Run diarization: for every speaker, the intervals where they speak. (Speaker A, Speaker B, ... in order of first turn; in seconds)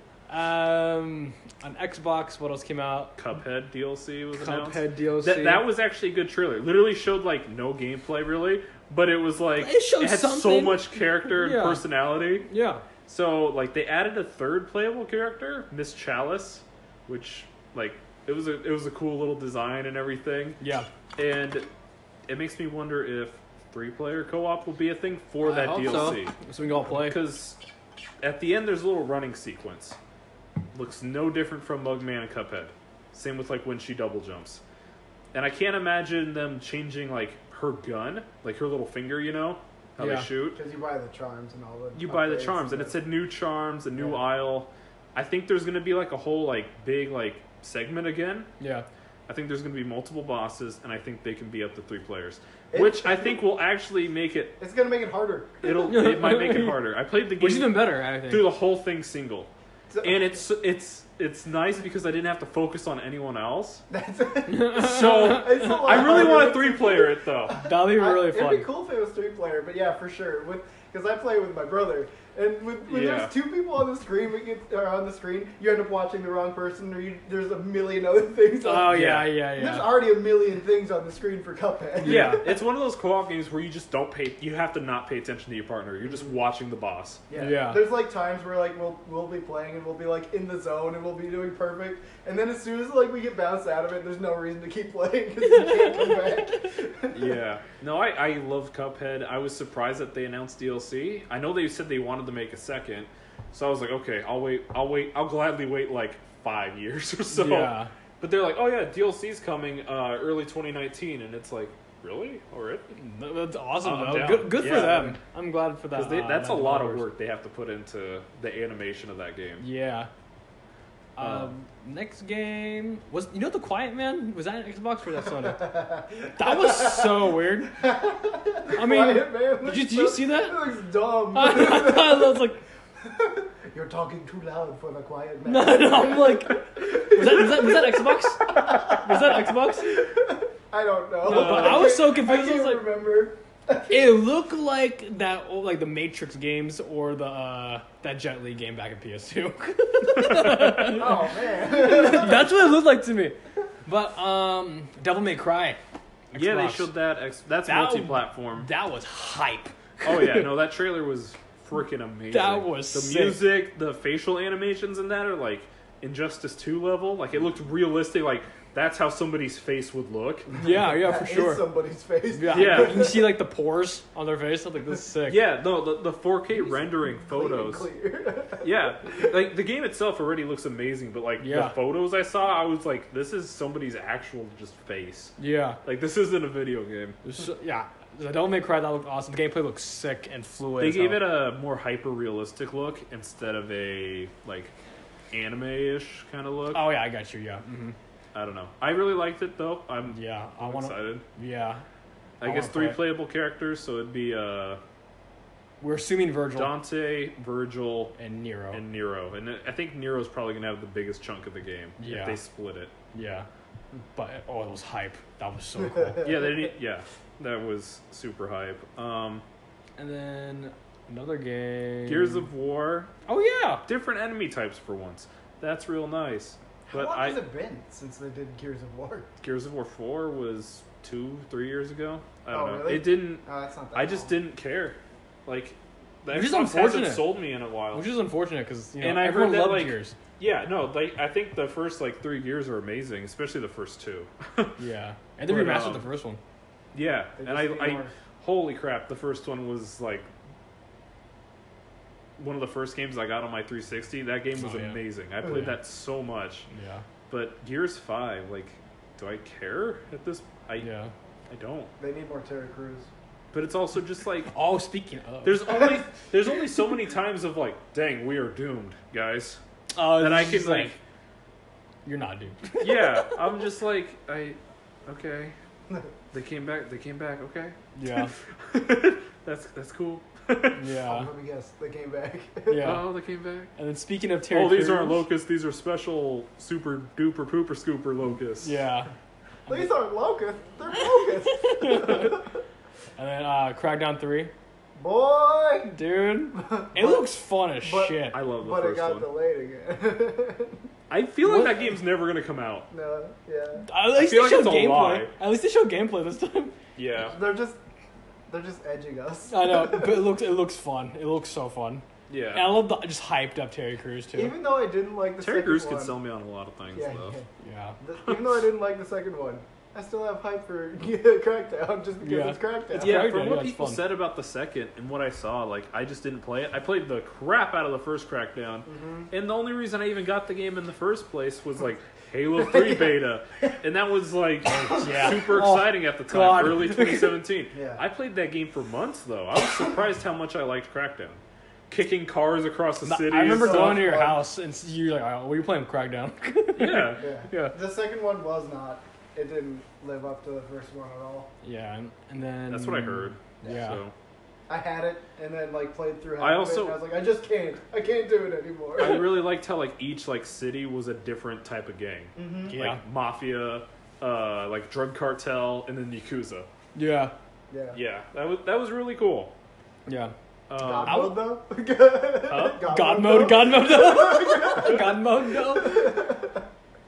Speaker A: 0.3-3.1, 4.3-5.7, 9.6-11.9, 12.4-12.8, 20.6-20.9, 25.4-27.2, 40.0-40.3, 48.6-48.9, 55.8-56.8, 57.4-58.5, 64.5-66.4, 67.6-68.7, 78.6-79.9, 82.0-82.5, 87.3-87.8, 95.4-96.4, 107.3-107.9, 112.9-117.1, 119.6-120.1, 121.2-125.7, 126.3-127.7, 128.7-130.6, 131.3-132.6, 135.4-140.0, 141.2-142.8, 143.9-155.8, 156.3-156.9, 157.6-160.5, 162.3-163.4, 170.6-171.6, 172.3-175.4, 181.4-181.8, 185.4-185.8, 187.2-191.3, 196.7-197.9, 200.1-201.8, 202.4-203.1, 205.8-206.8, 208.2-208.8, 212.0-212.4, 213.1-213.5, 214.1-216.3, 220.0-222.5, 223.3-223.8, 236.3-237.4, 237.9-240.2, 244.8-246.4, 254.6-255.7, 256.7-257.0, 260.8-261.1, 264.5-265.9, 269.9-270.9, 272.0-273.4, 277.9-278.3, 280.8-281.3, 282.7-283.0, 283.8-285.2, 288.6-289.1, 291.5-292.4, 293.2-294.5, 295.9-298.4, 301.4-301.9, 303.8-306.7, 309.5-314.5, 317.6-318.0, 322.2-324.0, 334.7-337.4, 343.0-347.7, 351.6-354.0, 362.7-363.0, 366.9-367.3, 370.1-370.3, 371.0-371.4, 372.9-376.2
Speaker B: 3.1-12.5, 13.1-20.6, 21.1-21.7, 22.3-26.3, 26.9-27.6, 28.2-30.0, 30.7-34.6, 35.3-40.6, 41.9-48.5, 49.3-54.6, 55.6-59.5, 60.0-63.8, 64.7-67.5, 72.9-73.3, 78.9-79.3, 82.0-87.2, 97.1-112.9, 113.8-115.2, 115.9-119.6, 121.2-121.5, 141.2-142.0, 150.1-151.2, 156.3-158.7, 160.0-170.5, 172.5-173.1, 175.3-177.9, 178.6-187.2, 190.8-194.7, 195.3-196.9, 198.3-201.2, 202.4-204.8, 206.5-208.1, 208.7-212.9, 216.2-219.4, 222.1-223.1, 223.8-227.4, 229.4-233.4, 233.9-238.1, 239.0-244.8, 245.4-246.1, 246.9-250.3, 252.4-256.6, 257.3-260.9, 261.5-261.9, 263.5-264.5, 265.4-269.6, 270.2-271.0, 272.8-275.6, 276.3-277.8, 278.6-280.8, 282.8-283.7, 284.5-288.8, 298.3-299.3, 301.1-302.9, 304.1-305.3, 306.9-307.3, 312.3-312.8, 315.4-317.4, 322.9-344.1, 346.7-347.2, 352.7-354.1, 356.4-357.0, 359.0-366.7, 367.9-369.5, 370.7-371.4, 372.5-372.9
Speaker C: 40.5-43.0, 44.0-44.2, 52.7-53.4, 54.6-55.9, 59.9-60.4, 63.9-82.5, 87.3-97.3, 125.2-144.2, 150.8-152.8, 170.5-173.3, 176.5-179.3, 226.9-229.3, 232.5-234.3, 247.4-248.1, 262.0-263.1, 281.0-283.0, 289.7-292.5, 295.0-296.0, 296.5-300.8, 302.9-303.9, 307.1-307.8, 308.5-310.3, 314.3-316.2, 316.9-317.5, 318.0-323.3, 328.9-329.3, 332.5-333.7, 335.1-335.3, 337.7-338.0, 343.4-344.5, 347.2-351.5, 354.7-359.4, 362.4-362.8, 367.7-368.0, 370.8-376.6